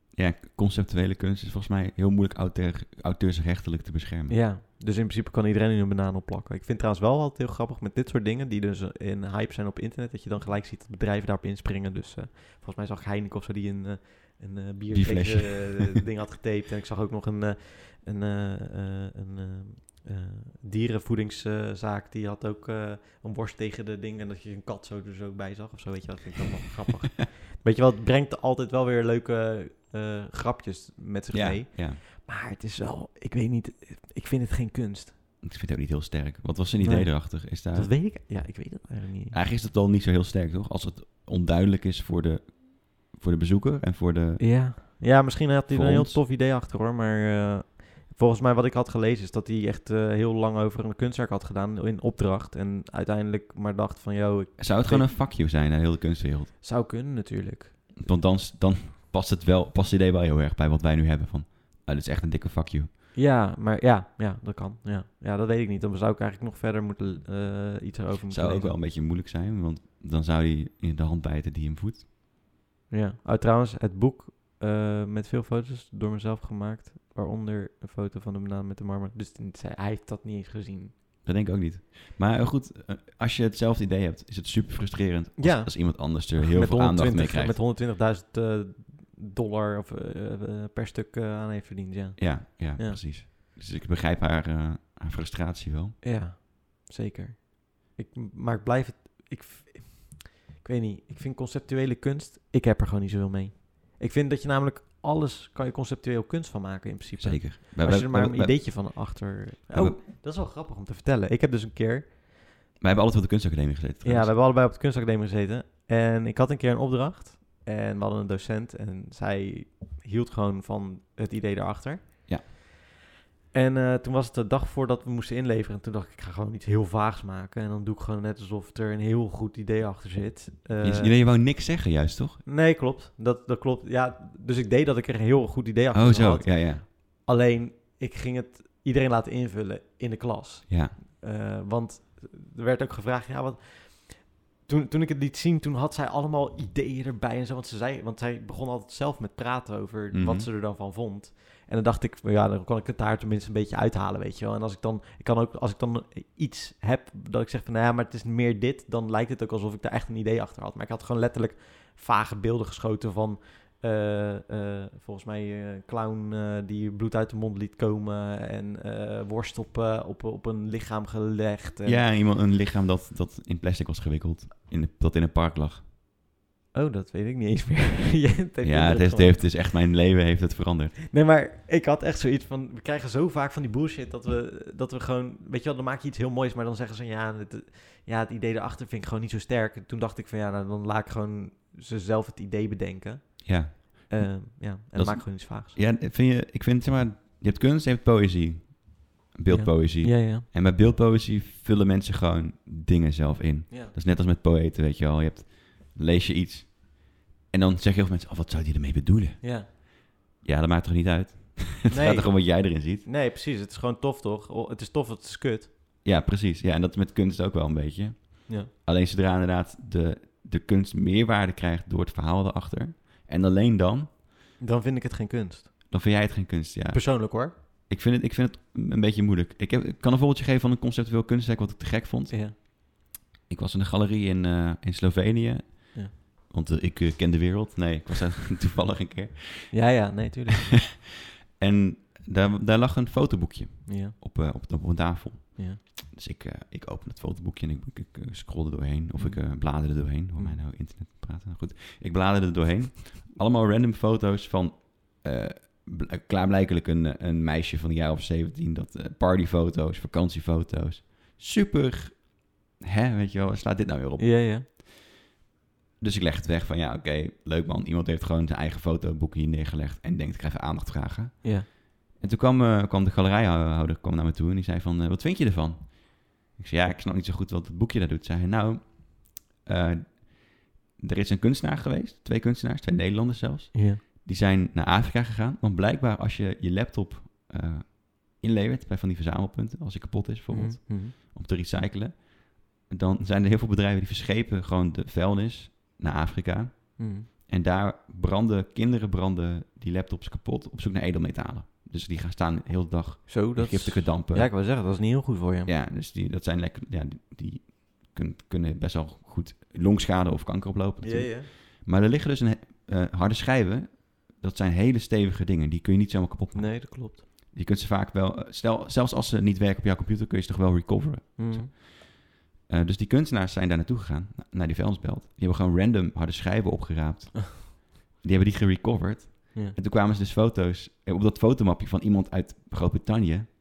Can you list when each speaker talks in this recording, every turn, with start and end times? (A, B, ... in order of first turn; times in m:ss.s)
0:00.1-0:04.4 A
0:04.3-0:35.2 B
0:14.9-0:16.0 A
0:31.3-0:32.0 A
0:35.4-0:37.9 A
0:36.8-0:39.4 B
0:39.3-0:44.6 A
0:44.4-0:55.1 B
0:45.7-0:46.2 A
0:54.6-0:56.5 A
0:56.6-0:58.0 B
0:58.0-1:02.9 A
1:03.1-1:08.8 B
1:08.3-1:12.1 A
1:12.9-1:20.9 B
1:21.2-1:27.6 A
1:25.4-1:33.0 B
1:32.2-1:36.0 A
1:36.0-1:52.2 B
1:47.2-1:50.0 A
1:52.8-1:54.3 A
1:54.0-2:02.6 B
2:03.5-2:11.1 B
2:10.8-2:12.4 A
2:12.4-2:52.0 B
2:15.9-2:16.8 A
2:20.7-2:20.9 A
2:30.1-2:30.5 A
2:51.8-2:55.8 A
2:56.7-2:59.4 B
2:58.6-3:01.0 A
3:01.1-3:15.8 B
3:13.4-3:14.3 A
3:14.9-3:29.9 A
3:19.5-3:20.4 B
3:29.4-3:29.7 B
3:30.4-3:33.1 A
3:31.9-3:35.7 B
3:36.0-3:44.2 A
3:44.6-3:45.7 B
3:45.9-3:52.6 A
3:46.9-3:47.5 B
3:52.3-3:52.5 B
3:53.5-3:59.9 A
3:59.7-4:00.8 B
4:01.6-4:24.8 A
4:03.9-4:04.2 B
4:09.1-4:10.6 B
4:24.2-4:24.6 B
4:26.0-5:04.6 A
4:43.7-4:44.0 B
4:50.5-4:51.1 B
4:57.0-4:57.3 B
5:03.3-5:05.7 B
5:05.6-5:33.4 A
5:11.0-5:11.5 B
5:16.5-5:17.2 B
5:21.4-5:21.7 B